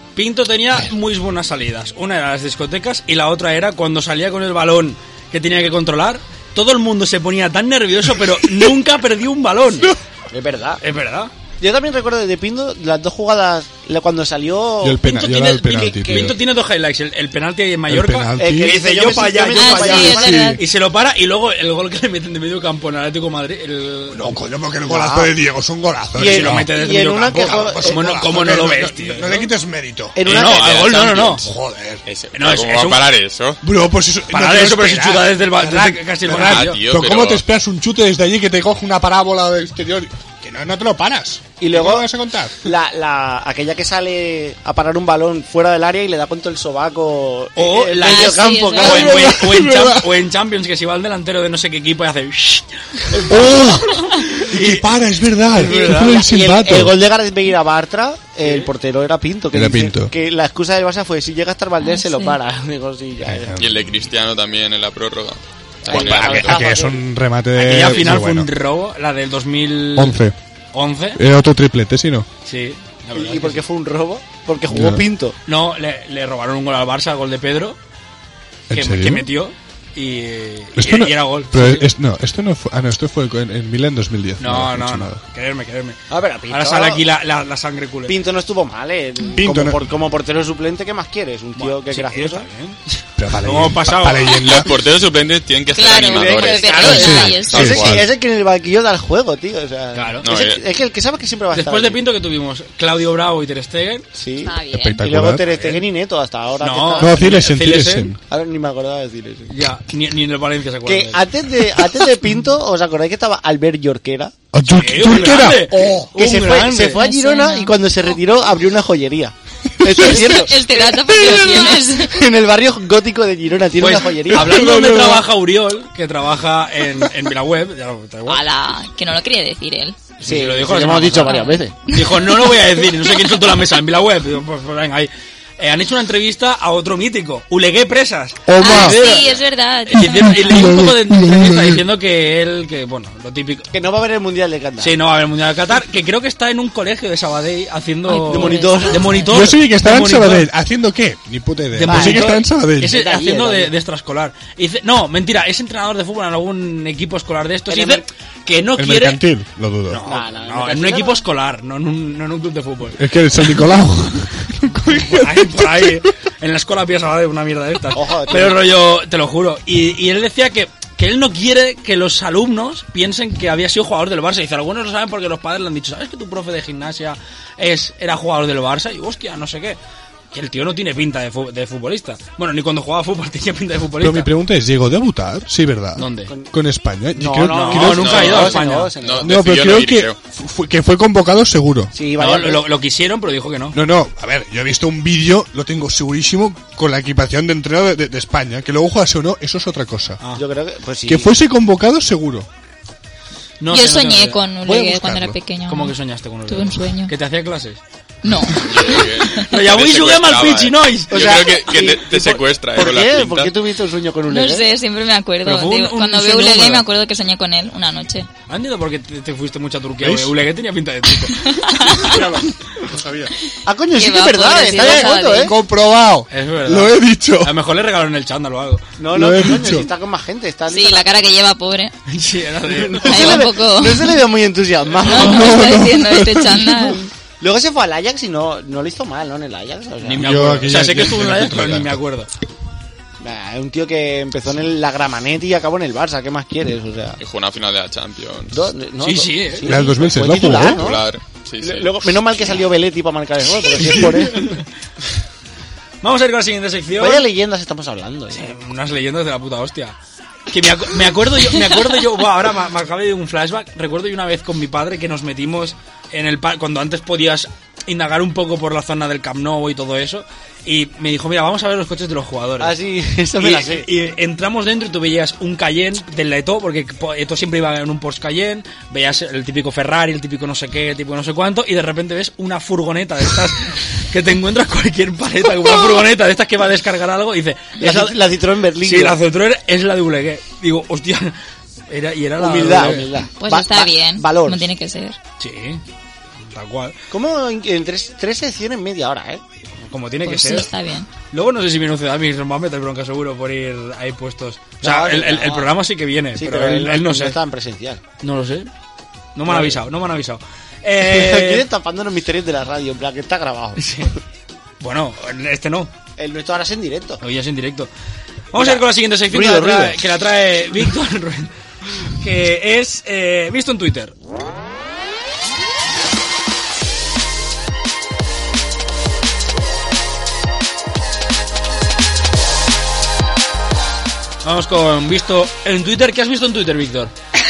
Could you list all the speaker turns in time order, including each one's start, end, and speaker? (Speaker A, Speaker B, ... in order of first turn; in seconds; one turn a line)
Speaker A: 0.1-9.9
Speaker B: 8.2-8.7
Speaker C: 10.3-10.8
Speaker A: 10.8-11.3
Speaker C: 11.6-15.1
Speaker B: 14.8-16.4
Speaker A: 15.0-24.2
Speaker C: 16.0-16.3
Speaker B: 17.9-18.8
Speaker C: 18.4-20.5
Speaker D: 19.5-20.6
Speaker B: 20.1-20.6
Speaker B: 24.1-26.7
Speaker C: 24.9-25.3
Speaker C: 26.1-28.2
Speaker A: 26.2-29.5
Speaker B: 27.3-32.0
Speaker C: 30.1-31.4
Speaker A: 30.2-31.5
Speaker E: 32.0-33.6
Speaker A: 32.3-33.0
Speaker B: 33.6-42.6
Speaker A: 34.3-36.8
Speaker E: 36.3-37.4
Speaker C: 41.6-42.1
Speaker C: 42.6-49.3
Speaker A: 47.5-54.9
Speaker D: 48.0-49.1
Speaker B: 48.8-50.1
Speaker B: 53.3-57.0
Speaker A: 55.5-56.2
Speaker C: 55.6-63.5
Speaker A: 58.4-58.7
Speaker B: 59.5-60.1
Speaker D: 61.8-62.4
Speaker B: 63.2-64.0
Speaker E: 63.6-66.6
Speaker C: 65.9-67.0
Speaker B: 65.9-68.5
Speaker A: 67.5-70.2
Speaker B: 70.0-70.3
Speaker A: 70.7-71.2
Speaker B: 71.1-72.3
Speaker A: 72.4-73.6
Speaker C: 73.1-75.3
Speaker B: 74.7-75.0
Speaker A: 75.5-77.8
Speaker B: 78.7-79.3
Speaker A: 78.7-81.9
Speaker B: 80.8-85.2
Speaker A: 84.4-88.1
Speaker C: 86.1-87.1
Speaker C: 88.1-92.5
Speaker B: 89.3-89.9
Speaker A: 91.5-94.4
Speaker B: 93.2-94.7
Speaker E: 94.4-98.0
Speaker D: 95.7-97.8
Speaker C: 95.8-102.0
Speaker B: 96.9-98.0
Speaker A: 99.9-100.2
Speaker E: 100.2-100.6
Speaker A: 101.5-104.0
Speaker C: 104.2-107.4
Speaker D: 104.4-105.0
Speaker B: 104.7-105.4
Speaker A: 105.5-105.8
Speaker A: 106.6-108.1
Speaker B: 107.0-108.2
Speaker C: 108.3-109.5
Speaker A: 109.5-111.2
Speaker C: 110.8-114.3
Speaker B: 114.5-116.1
Speaker A: 114.7-117.1
Speaker C: 116.1-124.7
Speaker D: 116.9-117.7
Speaker D: 120.0-122.2
Speaker A: 123.8-128.4
Speaker B: 124.3-125.3
Speaker D: 128.3-130.1
Speaker A: 130.2-143.7
Speaker C: 130.2-131.8
Speaker D: 131.2-132.4
Speaker B: 138.5-139.0
Speaker D: 138.6-140.7
Speaker B: 140.1-141.8
Speaker C: 143.7-145.0
Speaker A: 144.8-150.5
Speaker D: 148.1-149.2
Speaker C: 148.2-149.2
Speaker B: 149.3-152.9
Speaker A: 151.7-159.2
Speaker C: 151.9-153.7
Speaker C: 157.7-158.0
Speaker B: 158.8-160.0
Speaker A: 159.9-163.5
Speaker C: 160.0-161.2
Speaker B: 162.9-166.1
Speaker A: 164.9-179.8
Speaker C: 167.9-168.7
Speaker A: 180.3-184.3
Speaker B: 184.0-188.6
Speaker A: 185.9-186.3
Speaker C: 187.1-189.4
Speaker A: 187.4-188.9
Speaker E: 188.1-188.5
Speaker E: 189.0-190.2
Speaker B: 189.2-191.9
Speaker C: 191.9-192.7
Speaker A: 192.2-193.8
Speaker B: 193.7-200.2
Speaker C: 200.3-201.3
Speaker B: 201.1-202.5
Speaker A: 203.6-204.4
Speaker D: 203.7-205.9
Speaker B: 204.6-205.4
Speaker A: 205.7-207.8
Speaker D: 206.5-207.1
Speaker D: 208.2-209.5
Speaker E: 208.6-213.5
Speaker A: 208.9-211.2
Speaker C: 211.1-214.8
Speaker D: 214.3-218.3
Speaker A: 215.4-216.9
Speaker A: 218.5-221.5
Speaker B: 220.0-220.3
Speaker D: 221.4-222.2
Speaker B: 221.9-223.3
Speaker C: 223.7-225.5
Speaker D: 223.9-225.5
Speaker B: 225.4-227.5
Speaker A: 226.3-228.8
Speaker C: 229.0-231.1
Speaker B: 229.1-229.9
Speaker D: 230.7-231.9
Speaker A: 232.1-233.4
Speaker C: 232.7-235.9
Speaker D: 232.9-234.2
Speaker D: 235.0-237.0
Speaker B: 235.2-237.0
Speaker C: 237.4-241.0
Speaker A: 240.0-242.3
Speaker B: 240.2-242.0
Speaker C: 243.2-247.2
Speaker E: 247.2-248.7
Speaker C: 248.5-251.1
Speaker A: 249.0-249.9
Speaker B: 249.6-250.8
Speaker E: 250.6-252.2
Speaker C: 251.6-254.6
Speaker A: 253.8-254.6
Speaker A: 256.0-257.2
Speaker C: 256.9-258.5
Speaker A: 258.3-259.9
Speaker A: 260.5-272.7
Speaker C: 272.6-273.9
Speaker A: 273.4-288.1
Speaker C: 287.8-289.2
Speaker A: 288.8-291.4
Speaker A: 291.9-293.1
Speaker C: 292.4-294.7
Speaker D: 293.4-295.2
Speaker A: 295.4-295.8
Speaker A: 296.4-296.9
Speaker C: 297.1-299.4
Speaker A: 299.9-300.7
Speaker D: 300.3-301.1
Speaker A: 301.3-307.4
Speaker C: 304.8-305.7
Speaker C: 306.4-308.0
Speaker A: 308.2-308.7
Speaker A: 309.3-311.6
Speaker C: 309.5-309.8
Speaker C: 311.0-313.9
Speaker A: 313.8-314.1
Speaker A: 314.8-315.9
Speaker C: 316.2-317.2
Speaker A: 317.2-317.9
Speaker A: 318.5-321.5
Speaker C: 318.6-320.0
Speaker A: 322.0-324.1
Speaker A: 334.4-337.1